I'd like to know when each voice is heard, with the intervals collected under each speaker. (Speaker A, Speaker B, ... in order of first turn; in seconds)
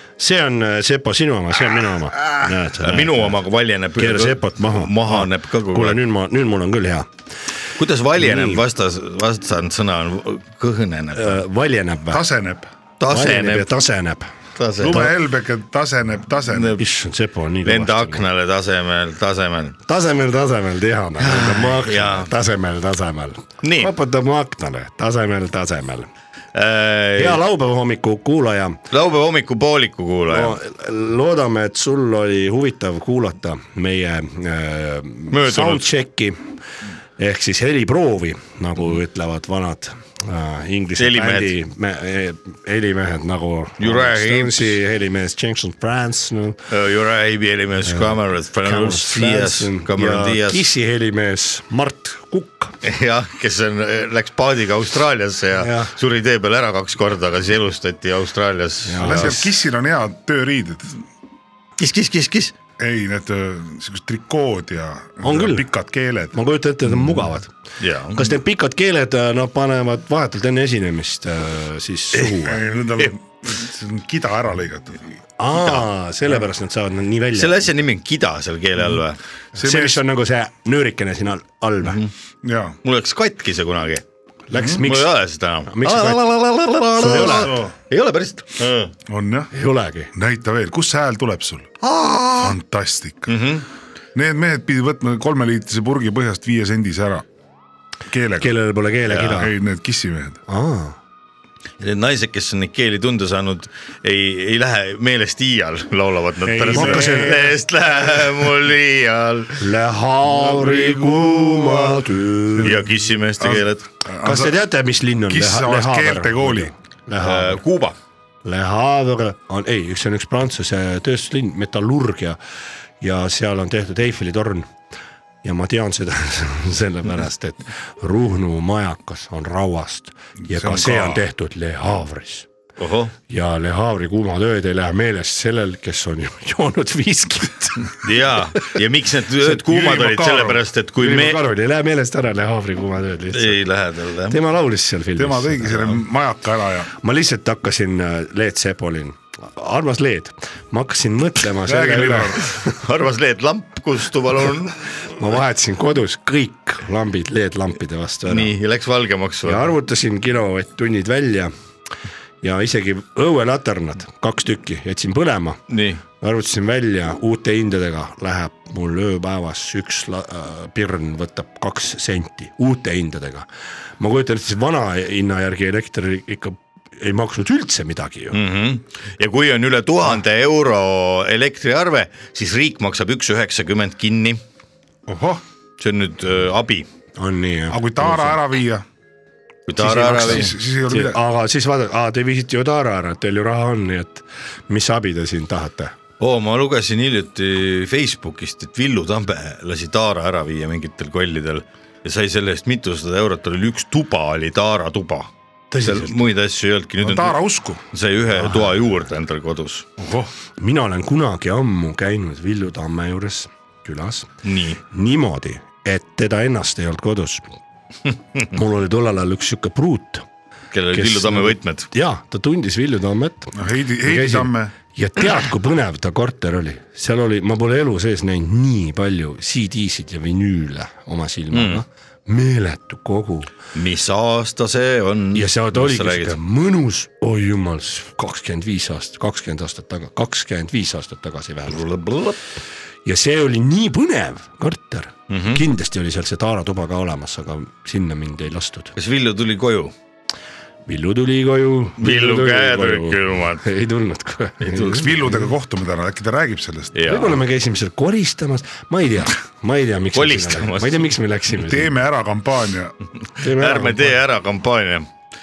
Speaker A: 0.2-3.4, 4.0-7.1, 8.2-8.6, 11.1-12.2, 13.1-14.3, 14.8-15.1, 16.8-18.2, 19.9-26.1, 27.2-28.8, 30.3-36.4, 37.2-46.6, 47.8-52.7, 55.6-55.9, 58.8-59.5, 65.2-65.7, 66.3-67.5, 68.1-72.6, 75.4-77.7, 79.5-82.0, 84.5-85.1, 85.7-86.3, 87.0-87.7, 89.5-90.1, 98.4-99.5, 100.5-101.0, 106.6-107.5, 109.6-112.8, 114.2-117.6, 118.4-122.4, 123.0-124.7, 125.4-132.5, 133.3-138.8, 141.0-143.6, 144.3-146.0, 147.0-152.7, 155.2-158.5, 159.4-161.5, 162.4-165.6, 166.1-173.5, 174.0-178.4, 187.2-188.4, 189.8-195.9, 205.7-206.2, 208.3-208.8, 210.6-214.3, 214.8-217.4, 218.5-220.2, 220.9-233.5, 235.3-241.8, 243.0-248.9, 250.8-255.5, 257.0-261.9, 263.4-264.2
Speaker B: 2.8-6.0, 7.8-11.4, 13.0-13.7, 14.6-15.1, 16.5-16.8, 17.6-19.8, 21.2-22.3, 23.6-23.9, 26.5-27.4, 28.9-30.6, 35.3-35.9, 41.0-41.5, 43.8-44.8, 46.7-50.7, 52.8-59.3, 61.8-62.5, 67.8-68.4, 75.5-75.8, 77.3-79.2, 81.8-82.1, 82.8-84.0, 84.8-88.9, 91.8-92.5, 93.3-93.7, 99.1-99.4, 101.8-109.6, 110.8-111.2, 112.6-113.8, 117.2-118.0, 132.8-133.1, 138.0-141.4, 143.3-144.4, 152.6-154.7, 158.3-159.7, 165.7-166.0, 178.3-184.4, 185.8-186.9, 189.7-190.5, 196.2-205.3, 205.8-207.4, 207.9-209.9, 214.4-214.8, 220.7-221.9, 231.5-231.8, 233.7-236.4, 241.7-242.4, 245.3-245.6, 248.9-249.9, 252.0-253.6, 254.6-255.1, 256.9-257.4, 260.1-261.1, 263.4-265.1
Speaker C: 12.1-12.7, 14.8-16.7, 59.0-61.0, 62.8-66.4, 72.4-75.1, 79.6-80.0, 82.4-82.8, 84.5-84.8, 87.1-87.7, 89.1-89.5, 90.1-91.7, 92.4-93.3, 94.1-97.2, 98.1-98.5, 99.2-100.4, 106.4-107.5, 113.4-114.6, 115.3-116.7, 130.4-131.2, 139.4-140.6, 145.2-146.9, 151.6-152.4, 185.1-185.4, 187.7-188.8, 190.1-191.2, 207.0-207.8, 210.0-210.3, 223.5-224.7, 254.8-256.9, 261.6-262.9